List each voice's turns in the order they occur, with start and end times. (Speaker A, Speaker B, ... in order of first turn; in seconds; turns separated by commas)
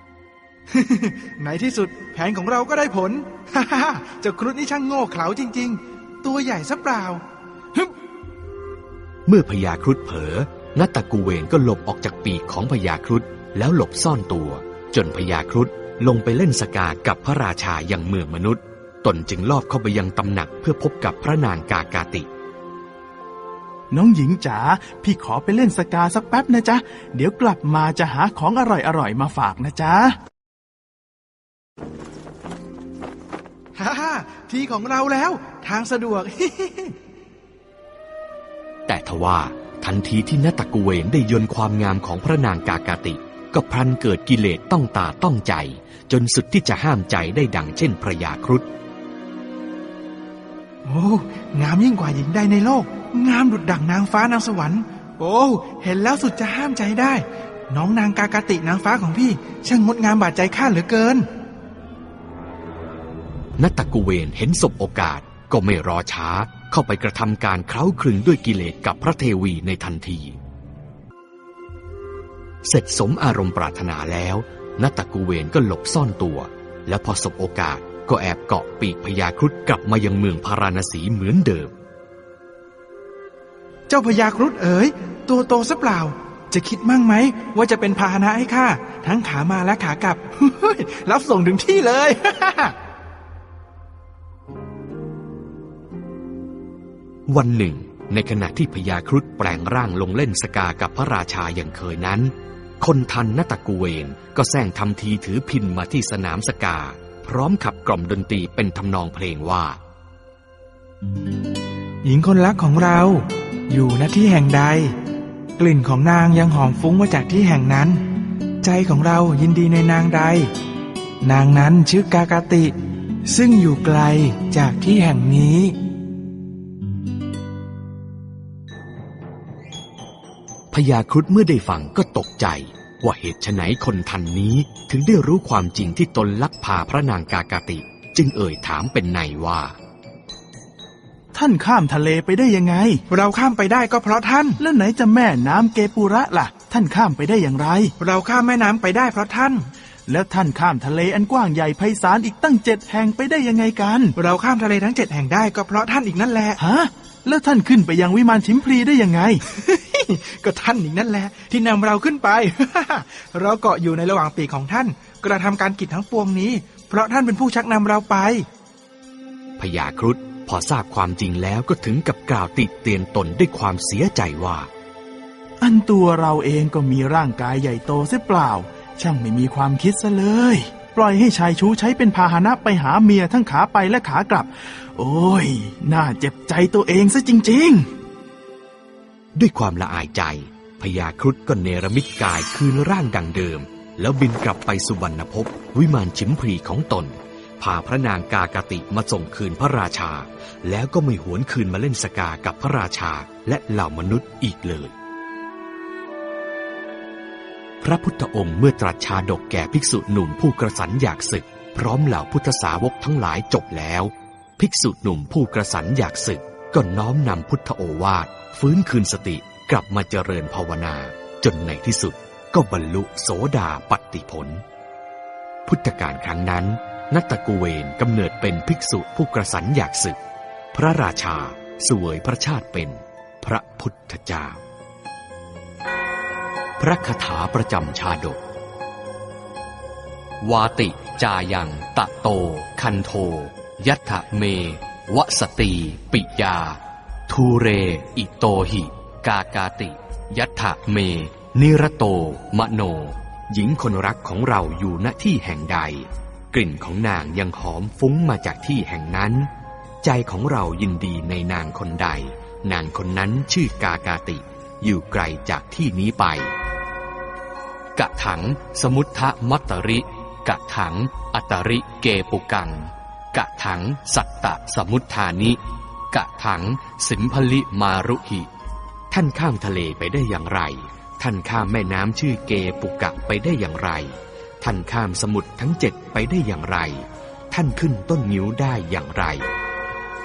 Speaker A: 0.7-7.2, Speaker B: 9.3-22.3, Speaker C: 23.9-30.1, Speaker A: 33.8-36.9, Speaker B: 38.9-48.7, Speaker A: 50.9-61.2, Speaker B: 63.6-70.4, Speaker B: 72.6-81.7, Speaker A: 83.9-92.8, Speaker B: 97.3-109.8, Speaker A: 112.0-114.9, Speaker A: 115.6-118.0, Speaker A: 118.6-120.5, Speaker A: 121.2-122.7, Speaker A: 123.3-125.8, Speaker B: 130.7-139.8, Speaker C: 141.3-143.0, Speaker A: 143.1-144.6, Speaker C: 144.6-147.9, Speaker A: 148.0-149.7, Speaker C: 150.1-154.1, Speaker A: 154.2-156.6, Speaker C: 156.6-159.4, Speaker A: 159.5-168.4, Speaker B: 169.6-174.7, Speaker C: 175.6-187.9, Speaker B: 189.3-204.9, Speaker B: 207.8-224.6, Speaker B: 225.7-230.2, Speaker B: 230.7-234.6, Speaker B: 236.8-238.4, Speaker B: 240.4-259.5, Speaker B: 260.0-266.5, Speaker B: 268.0-275.6, Speaker B: 276.1-278.5, Speaker B: 279.1-289.5